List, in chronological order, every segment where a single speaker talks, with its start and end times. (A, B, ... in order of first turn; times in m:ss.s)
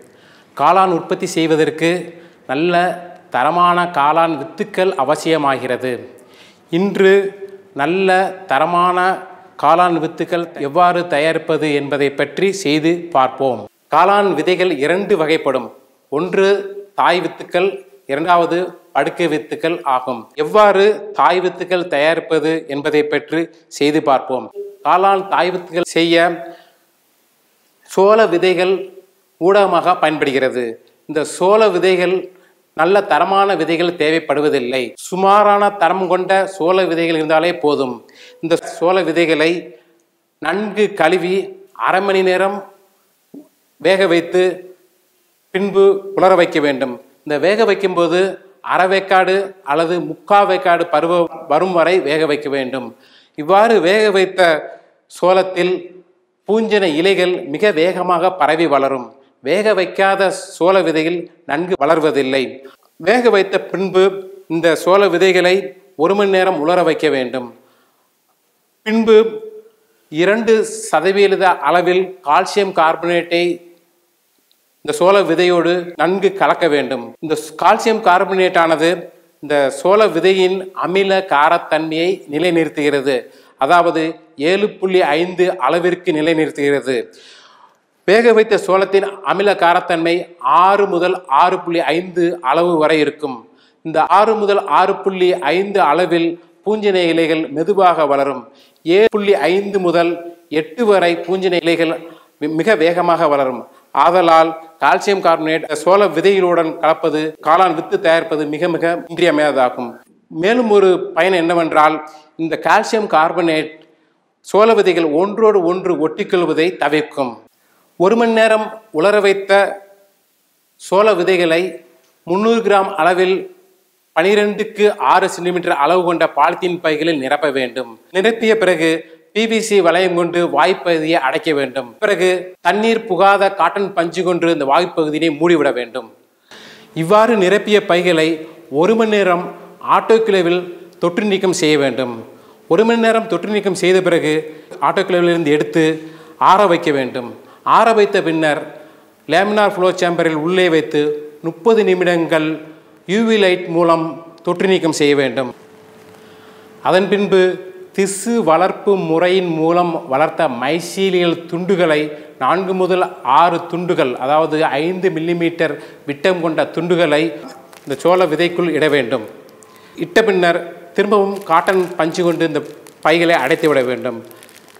0:00.6-0:02.0 A
0:02.5-0:06.0 A
0:06.7-0:07.2 A
0:07.8-0:26.3 A
0:27.9-0:28.8 A
0:29.4-0:32.2 A
0:32.8-0:39.6 A
0:40.4-0:42.6 A
0:43.8-0:44.5 A
0:45.5-0:54.6 A
0:55.1-0:55.8 A
0:56.5-1:02.5 A
1:03.0-1:07.5 A
1:08.8-1:09.3 A
1:10.2-1:13.5 A
1:14.8-1:27.0 A
1:28.1-1:53.8 A
1:54.5-1:57.3 A
1:58.0-1:59.6 A
2:00.8-2:01.6 A
2:02.3-2:03.4 A
2:04.1-2:16.1 A
2:17.0-2:22.2 A
2:22.7-2:25.9 A
2:26.4-2:28.6 A
2:29.3-2:32.5 A
2:33.1-2:35.5 A
2:36.8-2:47.3 A
2:47.8-2:49.2 A
2:50.0-2:54.2 A